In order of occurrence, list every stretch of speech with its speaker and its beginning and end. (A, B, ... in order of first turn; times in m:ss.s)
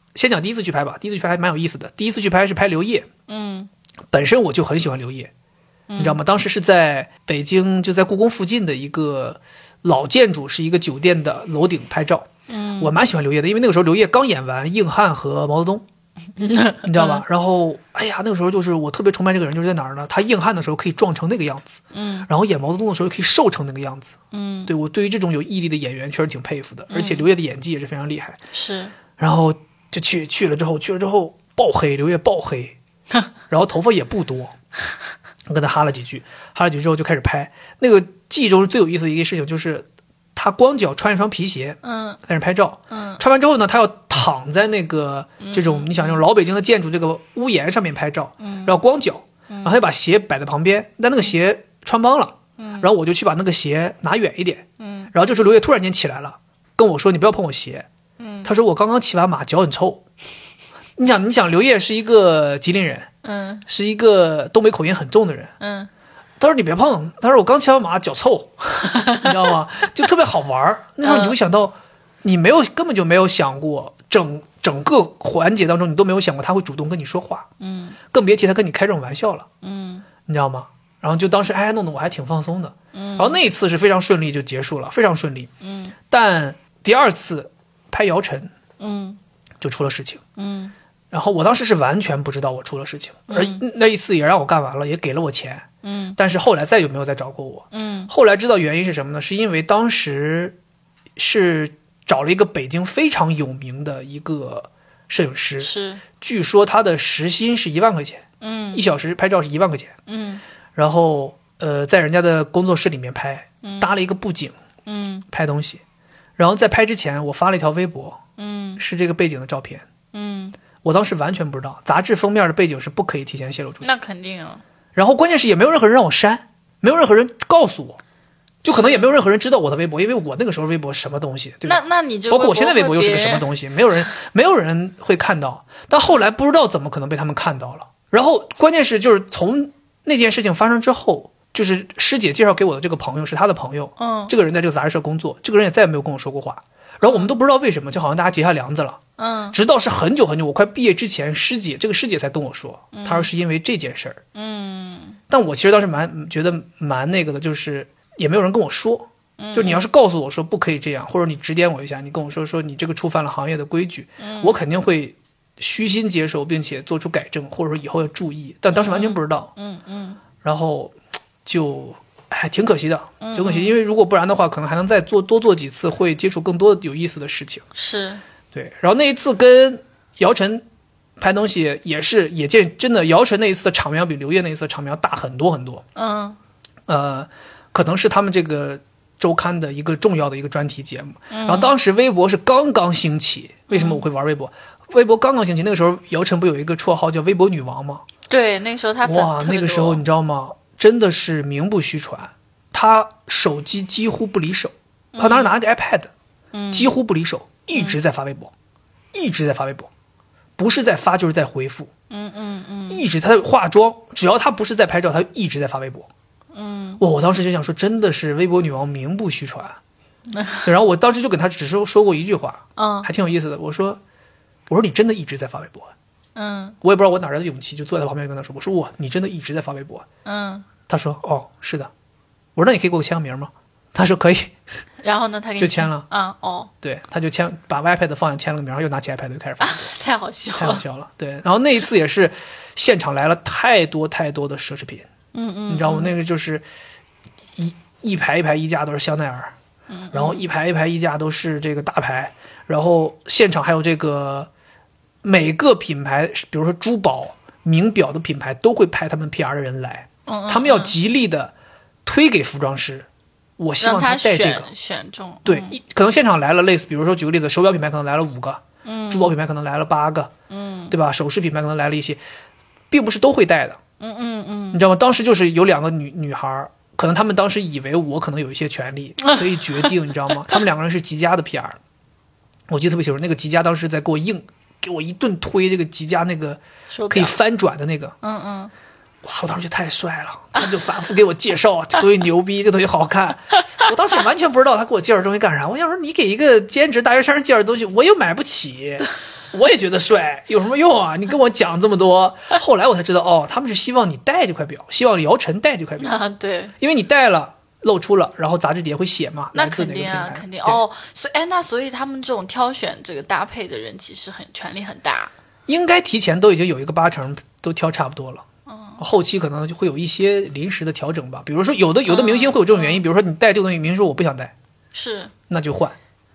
0:00.2-0:03.1 A
0:03.3-0:03.7 B
0:04.1-0:05.3 A
0:05.9-0:06.2 B
0:06.0-0:12.3 A
0:12.5-0:13.0 B
0:12.8-0:15.8 A
0:16.4-0:17.2 B
0:16.8-0:28.4 A
0:21.9-0:22.3 B
0:24.3-0:24.7 B
0:26.9-0:27.3 B
0:28.5-0:28.9 B
0:29.2-0:32.8 A
0:33.5-0:34.5 A
0:35.5-0:57.9 A
0:41.8-0:42.2 B
0:42.9-0:43.2 B
0:45.4-0:46.2 B
0:48.4-0:48.8 B
0:49.5-0:49.8 B
0:52.6-0:52.9 B
0:54.8-0:55.1 B
0:58.2-0:58.5 B
0:58.4-1:00.0 A
1:01.0-1:03.1 A
1:03.2-1:03.6 B
1:03.7-1:05.5 A
1:05.6-1:05.9 B
1:06.4-1:17.5 A
1:08.8-1:09.3 B
1:11.0-1:11.4 B
1:17.6-1:18.0 B
1:18.1-1:19.5 A
1:19.6-1:20.1 B
1:20.3-1:25.5 A
1:22.9-1:23.4 B
1:25.6-1:25.9 B
1:26.1-1:28.5 A
1:28.8-1:29.2 B
1:29.6-1:30.2 A
1:30.4-1:30.7 B
1:31.1-1:40.6 A
1:33.3-1:33.6 B
1:35.8-1:36.2 B
1:37.7-1:38.1 B
1:41.2-1:49.9 A
1:45.6-1:46.0 B
1:48.4-1:48.8 B
1:50.1-1:50.4 B
1:50.8-1:54.6 A
1:53.6-1:53.9 B
1:54.9-1:55.3 B
1:55.3-1:55.8 A
1:56.4-1:58.2 A
1:58.4-1:58.8 B
1:58.8-1:59.8 A
2:00.1-2:00.6 B
2:00.8-2:03.9 A
2:03.8-2:04.6 B
2:05.0-2:08.0 A
2:08.6-2:29.0 A
2:08.7-2:09.1 B
2:11.6-2:13.5 B
2:24.0-2:24.3 B
2:27.0-2:27.3 B
2:29.2-2:29.6 B
2:29.5-2:34.2 A
2:32.9-2:33.3 B
2:34.4-2:35.2 B
2:35.3-2:49.5 A
2:39.4-2:39.9 B
2:44.2-2:44.6 B
2:48.7-2:50.2 B
2:50.4-2:50.9 A
2:51.4-2:57.6 A
2:53.2-2:53.8 B
2:57.8-2:58.2 B
2:58.5-3:00.6 A
3:01.2-3:05.8 A
3:06.0-3:06.4 B
3:06.9-3:18.0 A
3:11.3-3:11.7 B
3:13.7-3:14.0 B
3:18.3-3:20.0 B
3:19.0-3:26.1 A
3:25.2-3:25.6 B
3:26.5-3:26.9 B
3:26.7-3:28.5 A
3:29.1-3:29.9 A
3:30.6-3:31.9 A
3:32.1-3:33.0 B
3:32.9-3:36.1 A
3:36.5-3:37.0 B
3:37.0-3:39.8 A
3:40.3-3:40.7 B
3:40.6-3:44.0 A
3:42.8-3:43.1 B
3:44.7-3:45.9 A
3:46.4-3:46.8 B
3:46.8-3:50.1 A
3:50.2-3:50.7 B
3:50.9-3:51.9 A
3:52.6-3:54.6 A
3:55.0-3:56.7 B
3:55.6-3:56.1 A
3:56.8-3:59.9 A
3:59.6-4:00.8 B
4:00.6-4:05.1 A
4:05.3-4:06.1 B
4:05.7-4:06.6 A
4:07.6-4:09.5 A
4:09.9-4:10.4 B
4:10.1-4:14.5 A
4:15.2-4:21.5 A
4:20.3-4:21.0 B
4:22.0-4:23.1 A
4:23.6-4:24.7 A
4:23.8-4:25.8 B
4:25.4-4:30.3 A
4:28.8-4:29.3 B
4:30.5-4:30.9 B
4:30.9-4:32.2 A
4:32.9-4:33.8 A
4:34.0-4:34.8 B
4:34.7-4:41.8 A
4:39.2-4:39.9 B
4:42.7-4:48.2 A
4:46.9-4:47.4 B
4:48.2-4:48.7 B
4:49.2-5:06.1 A
5:06.0-5:06.7 B
5:06.8-5:10.8 A
5:09.6-5:15.3 B
5:15.7-5:18.4 A
5:18.7-5:19.0 B
5:19.0-5:24.5 A
5:22.1-5:23.0 B
5:24.9-5:25.3 B
5:25.5-5:26.0 A